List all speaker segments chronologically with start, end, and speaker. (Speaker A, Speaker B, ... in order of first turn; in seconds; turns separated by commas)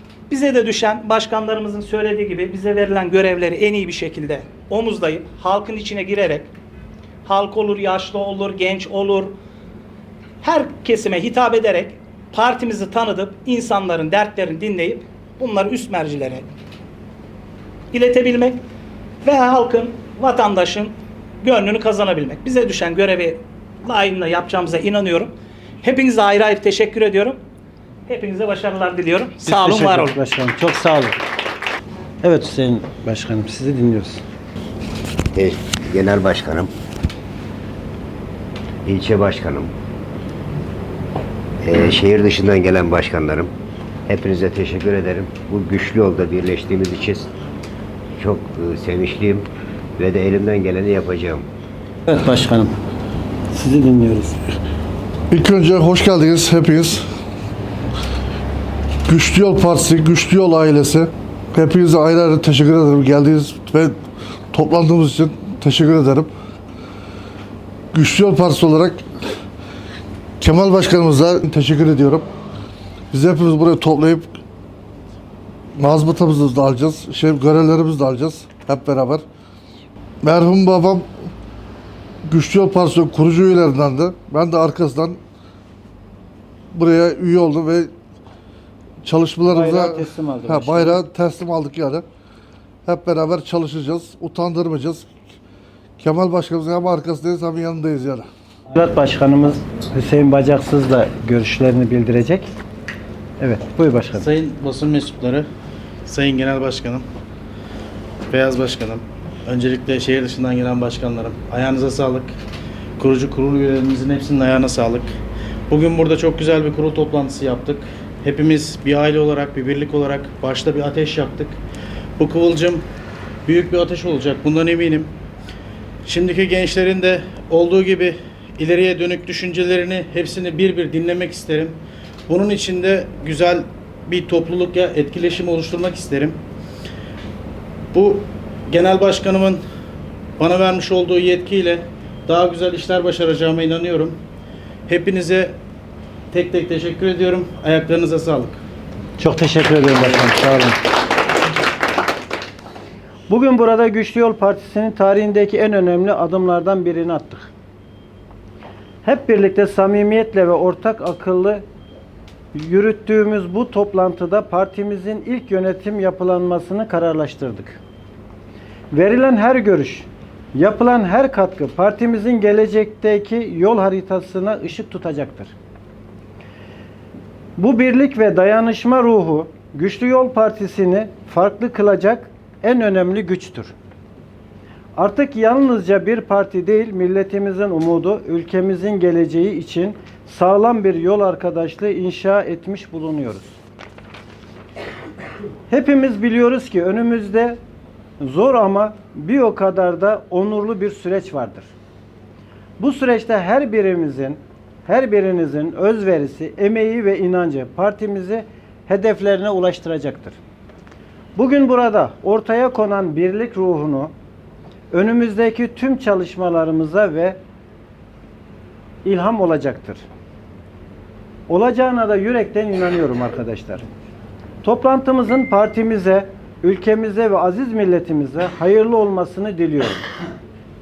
Speaker A: 0.3-6.5, Speaker A: 7.2-9.3, Speaker A: 10.4-16.5, Speaker A: 17.9-18.6, Speaker A: 19.2-25.3, Speaker A: 25.8-27.4, Speaker A: 28.1-30.1, Speaker B: 29.4-31.2, Speaker B: 32.2-34.2, Speaker C: 35.3-36.7, Speaker C: 38.9-39.7, Speaker C: 41.6-43.5, Speaker C: 44.1-47.3, Speaker C: 48.2-51.5, Speaker B: 52.1-52.8, Speaker B: 53.5-54.6, Speaker D: 55.3-57.0, Speaker D: 59.1-64.0, Speaker D: 64.5-66.3, Speaker D: 67.9-69.0, Speaker D: 70.4-72.2, Speaker D: 73.1-74.3, Speaker D: 75.8-79.2, Speaker D: 80.2-81.1, Speaker D: 82.2-85.2, Speaker D: 86.7-87.9, Speaker D: 89.0-92.0, Speaker B: 89.5-91.0, Speaker D: 92.9-95.1, Speaker D: 96.0-98.3, Speaker B: 98.7-102.5, Speaker B: 103.4-104.3, Speaker E: 104.2-105.5, Speaker E: 106.1-107.1, Speaker E: 108.3-112.3, Speaker E: 113.0-115.1, Speaker E: 115.7-121.6, Speaker E: 122.2-122.8, Speaker E: 123.5-125.1, Speaker E: 126.0-131.8, Speaker E: 132.3-136.4, Speaker E: 137.9-139.6, Speaker E: 140.4-144.2, Speaker E: 144.9-145.6, Speaker E: 146.3-148.6, Speaker B: 149.2-150.8, Speaker B: 153.3-157.5, Speaker B: 159.0-161.6, Speaker B: 162.5-167.8, Speaker B: 168.9-175.6, Speaker B: 177.6-183.7, Speaker B: 185.0-193.6, Speaker B: 195.7-197.6, Speaker B: 198.2-201.7, Speaker B: 202.8-210.4, Speaker B: 211.4-214.1, Speaker B: 214.9-217.4, Speaker B: 219.0-220.0, Speaker B: 221.5-223.9, Speaker B: 224.6-230.0